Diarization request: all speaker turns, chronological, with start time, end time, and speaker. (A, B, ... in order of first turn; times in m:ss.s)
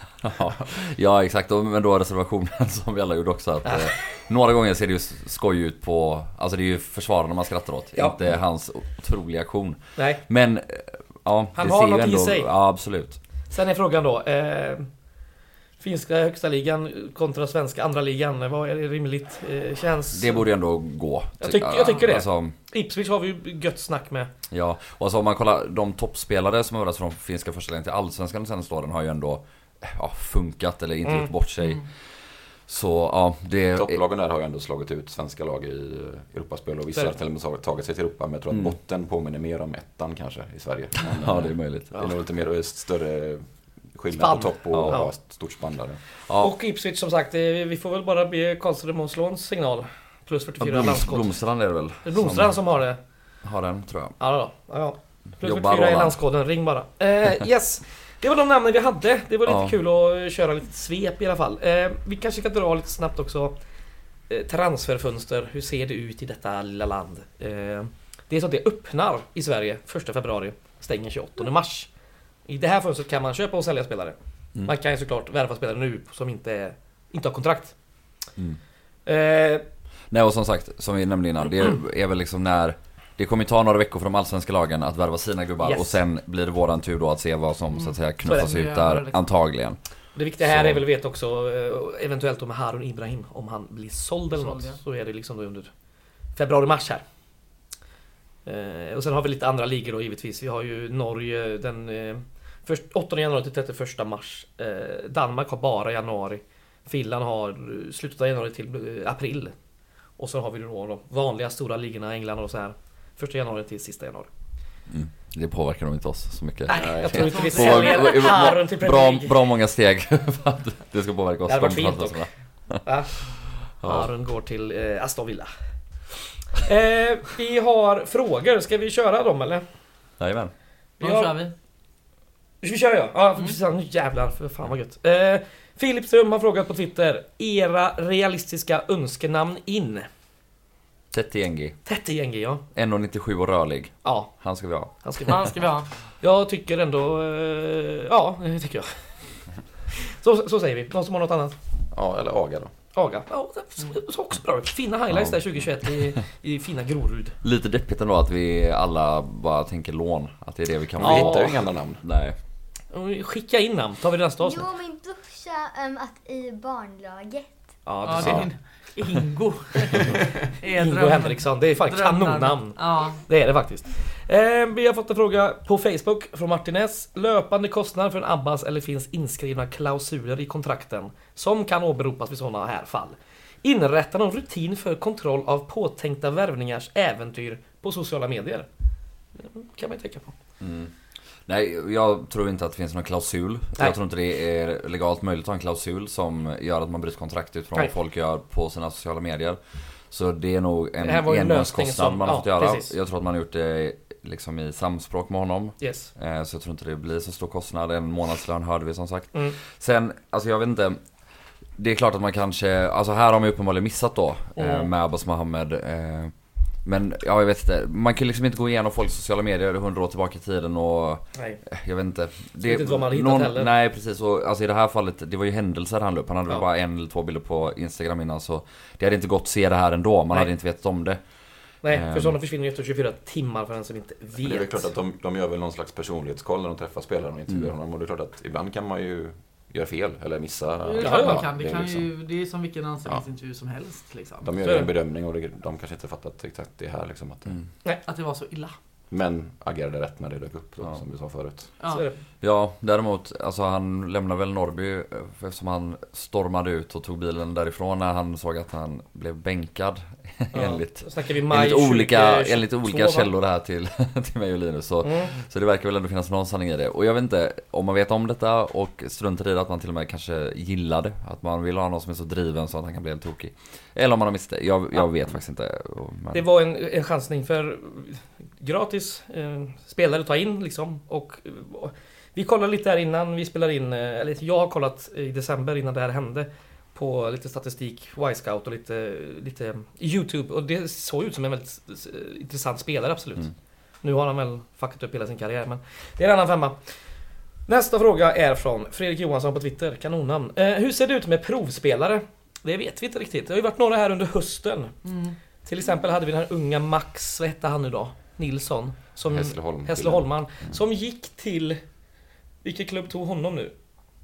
0:00.2-0:13.2 A
0:03.6-0:03.9 B
0:10.0-0:10.2 B
0:11.6-0:12.5 B
0:13.5-0:14.9 B
0:15.8-0:20.4 B
0:20.1-0:22.5 A
0:21.4-0:24.3 B
0:24.5-0:34.0 A
0:31.0-0:31.3 B
0:33.7-0:46.0 C
0:38.5-0:38.8 A
0:41.0-0:42.0 A
0:44.2-0:45.1 B
0:44.7-0:45.0 A
0:46.3-0:46.5 A
0:46.4-0:51.3 B
0:50.6-0:52.6 A
0:52.0-0:53.0 B
0:53.4-0:54.2 A
0:54.2-1:03.6 B
0:55.4-0:56.2 A
0:59.4-0:59.8 A
1:04.3-1:11.9 B
1:12.5-1:17.8 B
1:19.0-1:19.6 B
1:20.1-1:29.8 A
1:25.6-1:26.0 B
1:27.7-1:29.3 D
1:28.3-1:28.5 B
1:30.1-1:35.7 B
1:30.4-1:30.8 A
1:34.3-1:34.8 D
1:36.3-1:37.0 B
1:38.4-1:49.6 B
1:50.2-1:54.3 B
1:54.9-2:02.8 A
1:56.7-1:58.3 D
1:56.7-1:57.6 C
1:57.0-1:59.4 B
2:01.5-2:02.3 B
2:02.8-2:03.1 B
2:03.8-2:04.1 A
2:03.8-2:05.5 B
2:06.5-2:09.6 B
2:10.2-2:10.5 A
2:11.0-2:11.3 B
2:11.0-2:11.5 D
2:12.6-2:20.1 B
2:21.1-2:21.8 A
2:21.8-2:22.6 B
2:22.7-2:25.4 A
2:24.0-2:24.3 B
2:25.0-2:29.1 B
2:25.3-2:25.9 D
2:29.9-2:31.6 B
2:31.9-2:32.7 C
2:32.9-2:37.4 B
2:35.1-2:36.1 A
2:37.4-2:42.4 A
2:41.0-2:42.0 C
2:41.0-2:41.6 B
2:42.9-2:44.6 B
2:44.4-2:47.7 E
2:47.8-2:48.5 B
2:48.0-2:53.2 D
2:50.7-3:08.7 B
3:09.4-3:10.3 B
3:10.6-3:10.9 A
3:11.5-3:31.1 A
3:21.0-3:22.9 B
3:25.8-3:26.1 B
3:31.7-3:51.2 A
3:34.6-3:34.9 D
3:41.3-3:41.6 B
3:42.6-3:43.7 B
3:51.8-3:54.9 B
3:51.9-3:52.4 A
3:54.4-4:02.1 C
4:00.8-4:04.5 D
4:01.0-4:01.4 B
4:04.4-4:07.6 C
4:04.6-4:04.9 B
4:08.0-4:08.7 D
4:09.1-4:11.7 C
4:11.8-4:12.1 D
4:11.9-4:12.2 B
4:12.4-4:36.4 A
4:20.5-4:23.3 B
4:25.0-4:25.4 B
4:36.3-4:53.5 B
4:54.0-4:56.8 B
4:57.6-5:05.0 B
5:05.0-5:05.4 D
5:05.6-5:11.8 B
5:09.3-5:10.8 C
5:12.6-5:13.7 B